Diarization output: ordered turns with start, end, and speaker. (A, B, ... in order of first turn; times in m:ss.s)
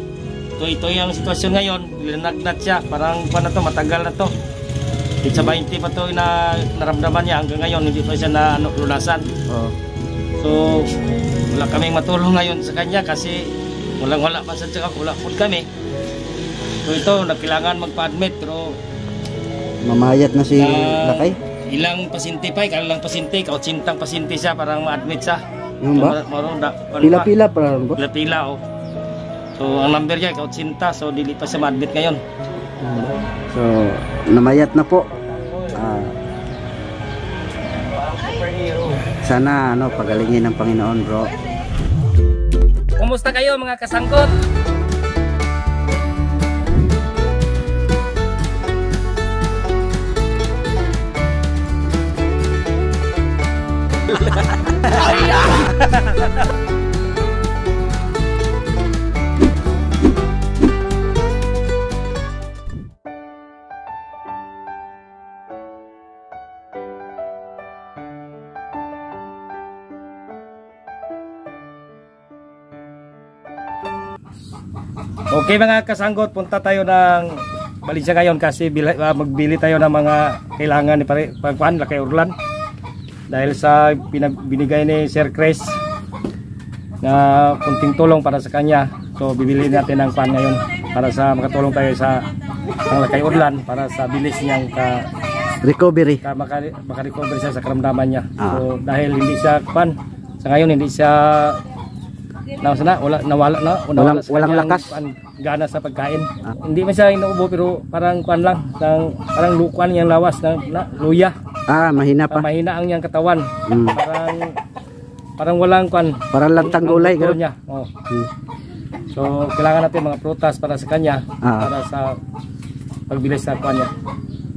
0:00.6-0:04.3 A
0:05.2-0:09.2 A
0:09.5-0:09.7 B
0:10.4-0:10.9 A
0:11.5-0:15.7 A
0:16.8-0:18.8 A
0:19.8-0:21.4 B
0:20.5-0:25.4 A
0:25.8-0:26.2 B
0:26.0-0:27.3 A
0:27.0-0:28.0 B
0:28.0-0:28.6 A
0:29.6-0:32.2 A
0:32.8-0:36.2 B
0:39.2-0:41.3 B
0:43.0-0:44.3 A
0:55.4-0:56.4 A
1:15.3-1:22.3 A
1:23.3-1:25.8 A
1:27.0-1:32.2 A
1:32.8-1:35.0 A
1:35.6-1:36.2 B
1:36.2-1:41.6 A
1:38.4-1:38.6 B
1:42.6-1:51.3 A
1:43.9-1:45.0 B
1:51.7-1:52.5 B
1:52.3-1:54.6 A
1:53.7-1:54.0 B
1:55.4-1:57.9 A
1:56.3-1:57.4 B
1:59.1-2:02.2 A
2:01.4-2:01.7 B
2:03.1-2:03.9 A